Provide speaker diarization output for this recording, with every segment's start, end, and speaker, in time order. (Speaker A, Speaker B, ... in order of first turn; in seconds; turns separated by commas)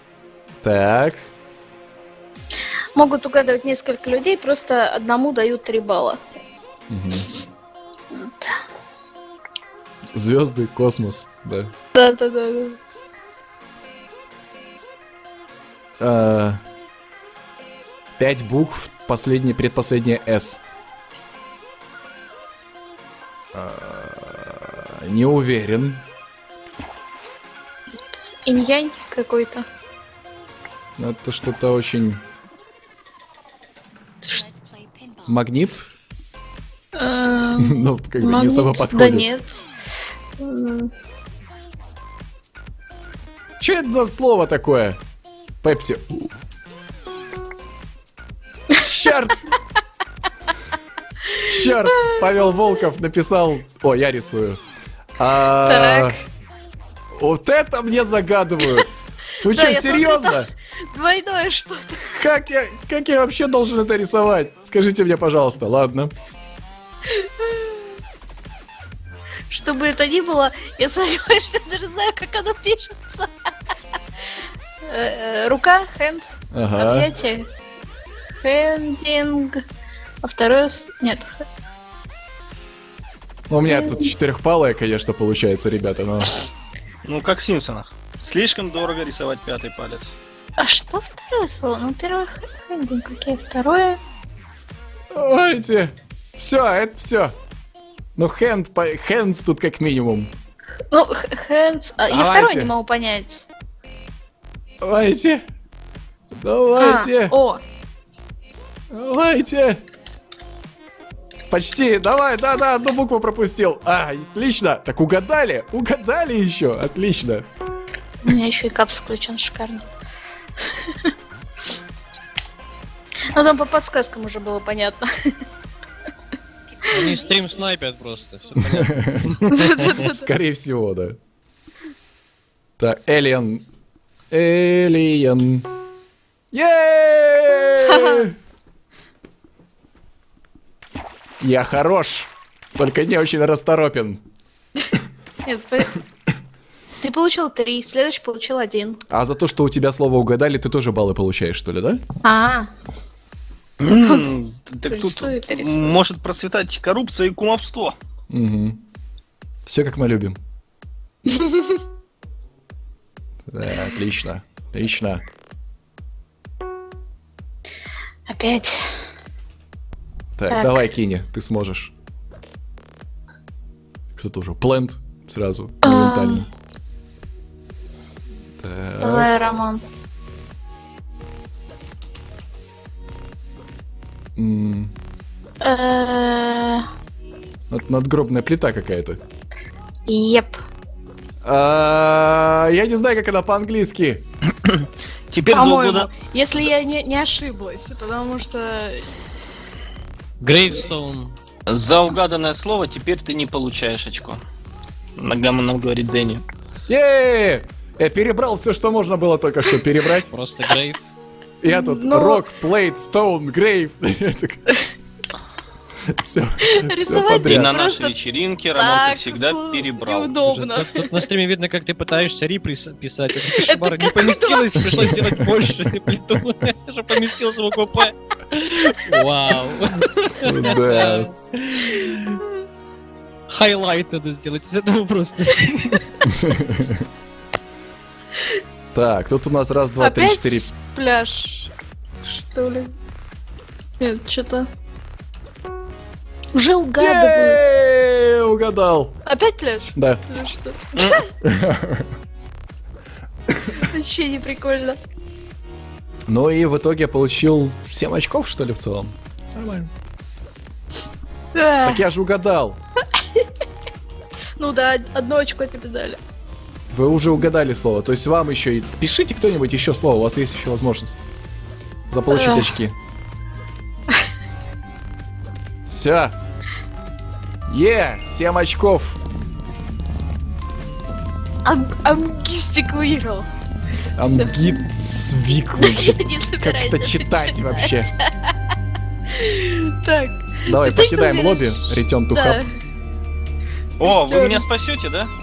Speaker A: 0.6-1.3, Speaker B: 3.0-6.2, Speaker A: 6.9-7.3, Speaker B: 8.1-8.6, Speaker A: 10.2-11.7, Speaker B: 11.9-12.8, Speaker A: 16.0-16.6, Speaker A: 18.2-20.6, Speaker A: 23.5-26.0, Speaker B: 28.3-29.6, Speaker A: 31.0-32.2, Speaker B: 34.2-34.5, Speaker A: 35.2-35.9, Speaker B: 37.0-39.6, Speaker A: 37.6-39.3, Speaker B: 40.4-40.9, Speaker A: 43.6-45.0, Speaker A: 45.6-46.3, Speaker A: 48.8-49.5, Speaker B: 51.3-52.4, Speaker A: 51.4-54.6, Speaker A: 55.2-56.2, Speaker B: 55.5-56.2, Speaker A: 57.1-60.5, Speaker B: 59.4-62.1, Speaker A: 62.1-66.1, Speaker B: 67.1-67.8, Speaker B: 69.5-73.3, Speaker B: 74.9-77.5, Speaker A: 76.5-77.1, Speaker B: 78.4-79.6, Speaker B: 80.2-81.4, Speaker A: 83.5-86.3, Speaker B: 83.7-84.1, Speaker C: 87.0-90.2, Speaker B: 90.6-94.0, Speaker A: 95.1-97.3, Speaker A: 98.2-100.3, Speaker B: 100.9-103.5, Speaker A: 102.1-102.7, Speaker A: 104.8-105.4, Speaker A: 106.4-107.4, Speaker B: 106.8-107.6, Speaker A: 108.9-109.8, Speaker A: 111.5-117.5, Speaker B: 118.2-119.9, Speaker B: 120.6-121.1, Speaker B: 123.3-125.1, Speaker D: 126.9-130.0, Speaker A: 128.7-131.2, Speaker B: 129.5-130.3, Speaker A: 132.8-133.7, Speaker A: 134.3-135.7, Speaker A: 136.5-138.3, Speaker B: 137.8-138.3, Speaker A: 141.4-144.2, Speaker B: 145.5-146.0, Speaker B: 147.0-149.0, Speaker A: 149.1-152.0, Speaker B: 152.2-152.7, Speaker C: 153.8-157.9, Speaker B: 154.0-154.3, Speaker B: 154.9-156.0, Speaker A: 158.3-158.8, Speaker A: 159.7-160.4, Speaker B: 161.3-161.8, Speaker A: 163.5-165.2, Speaker B: 168.3-168.8, Speaker A: 170.4-171.9, Speaker B: 170.5-170.8, Speaker A: 174.2-176.5, Speaker B: 175.8-176.5, Speaker A: 178.6-179.3, Speaker B: 179.0-179.8, Speaker A: 184.4-184.9, Speaker B: 185.6-186.9, Speaker A: 187.7-189.2, Speaker B: 190.1-190.6, Speaker A: 191.4-194.2, Speaker C: 194.5-196.1, Speaker B: 195.5-199.0, Speaker D: 200.4-201.4, Speaker C: 201.7-204.4, Speaker C: 205.2-206.4, Speaker A: 206.9-210.3, Speaker D: 210.3-211.0, Speaker A: 211.6-214.6, Speaker B: 211.6-212.4, Speaker A: 216.2-217.7, Speaker B: 216.6-218.2, Speaker C: 217.4-220.3, Speaker B: 218.7-221.3, Speaker D: 220.4-232.4, Speaker B: 223.5-225.2, Speaker A: 230.4-231.3, Speaker D: 233.5-236.1, Speaker A: 236.2-237.0, Speaker A: 238.9-240.7, Speaker B: 240.0-241.7, Speaker B: 242.2-242.9, Speaker B: 244.0-244.7, Speaker B: 246.5-247.6, Speaker A: 247.0-249.2, Speaker B: 249.3-251.3, Speaker A: 249.9-250.2, Speaker C: 251.0-251.2, Speaker A: 251.4-252.1, Speaker B: 253.7-255.0, Speaker A: 256.3-259.9, Speaker B: 261.5-262.0, Speaker A: 261.8-262.8, Speaker B: 263.1-263.5, Speaker B: 264.6-266.2, Speaker A: 266.9-271.2, Speaker A: 272.1-272.9, Speaker B: 272.3-272.7, Speaker A: 275.9-276.3, Speaker A: 277.7-279.2, Speaker B: 281.6-283.5, Speaker A: 284.2-288.1, Speaker B: 284.4-284.8, Speaker B: 285.8-288.5, Speaker B: 289.3-292.7, Speaker A: 290.6-292.6, Speaker C: 294.0-295.3, Speaker B: 294.0-294.6